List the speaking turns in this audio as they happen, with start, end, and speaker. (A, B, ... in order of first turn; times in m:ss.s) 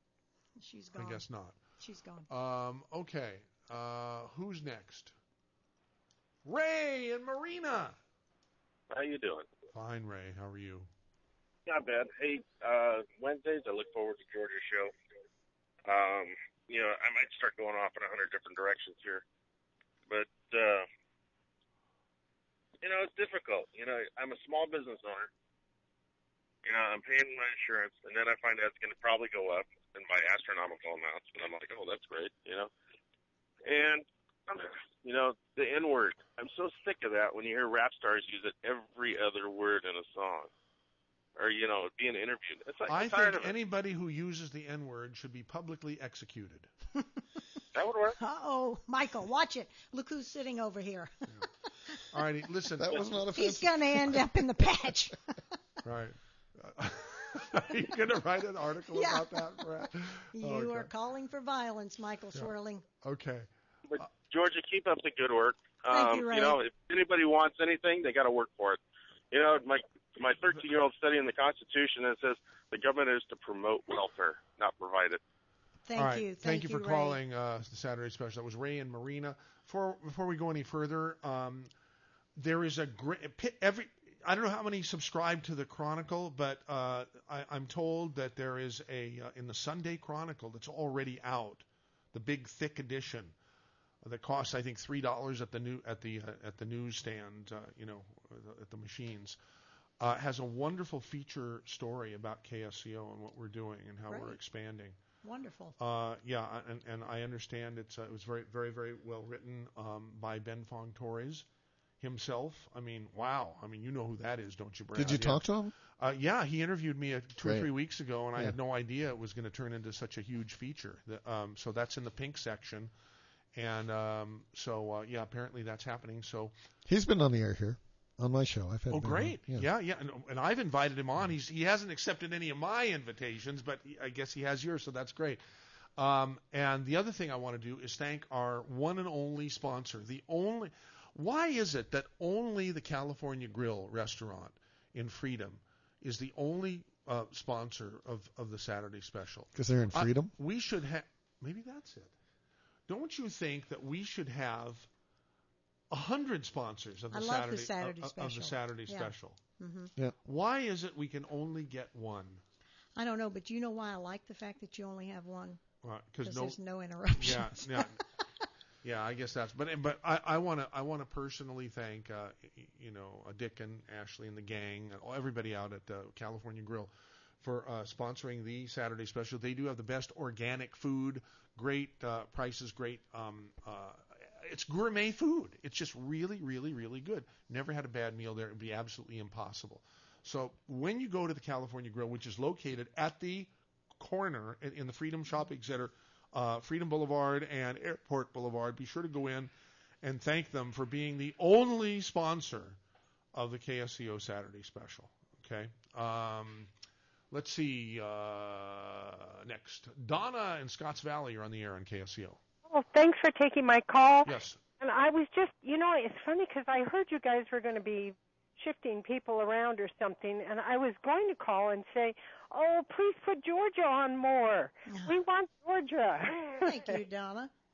0:00.6-0:01.2 A
0:01.0-0:01.6 B
0:01.8-0:02.3 A
0:02.3-0:05.1 B
0:06.4-0:08.0 B
0:08.9-0:09.5 C
0:09.7-0:10.9 B
0:11.6-0:14.9 C
0:15.8-0:19.2 C
0:20.1-0:20.8 C
0:22.8-0:25.3 C
0:26.6-0:32.7 C
0:33.6-0:40.5 C
0:41.4-0:43.5 C
0:42.9-0:46.7 B
0:47.7-0:48.2 C
0:48.2-0:51.1 A
0:52.1-0:53.1 B
0:52.8-0:54.9 D
0:53.3-0:55.2 A
0:55.8-1:00.9 B
0:58.9-0:59.6 A
1:00.3-1:02.8 A
1:03.0-1:04.1 B
1:03.9-1:08.8 C
1:05.9-1:06.6 A
1:09.3-1:15.2 C
1:15.8-1:17.2 A
1:16.0-1:21.7 B
1:22.4-1:33.3 B
1:34.0-1:39.4 B
1:40.0-1:45.0 B
1:44.1-1:44.4 A
1:45.2-1:45.8 A
1:45.8-1:51.5 B
1:52.0-2:02.9 B
1:54.9-1:55.7 D
1:57.4-1:57.7 D
2:03.5-2:06.5 B
2:06.8-2:09.7 D
2:08.9-2:15.4 B
2:16.0-2:32.1 B
2:29.5-2:30.3 D
2:32.9-2:34.9 B
2:35.9-2:39.4 B
2:37.1-2:39.9 A
2:40.2-2:42.4 B
2:43.0-2:45.6 A
2:45.8-2:46.6 B
2:46.2-2:47.9 A
2:47.1-2:48.0 B
2:48.8-3:19.5 B
3:20.0-3:22.8 B
3:23.3-3:26.7 B
3:27.3-3:32.4 B
3:32.6-3:47.0 E
3:34.2-3:34.6 B
3:46.5-3:47.5 A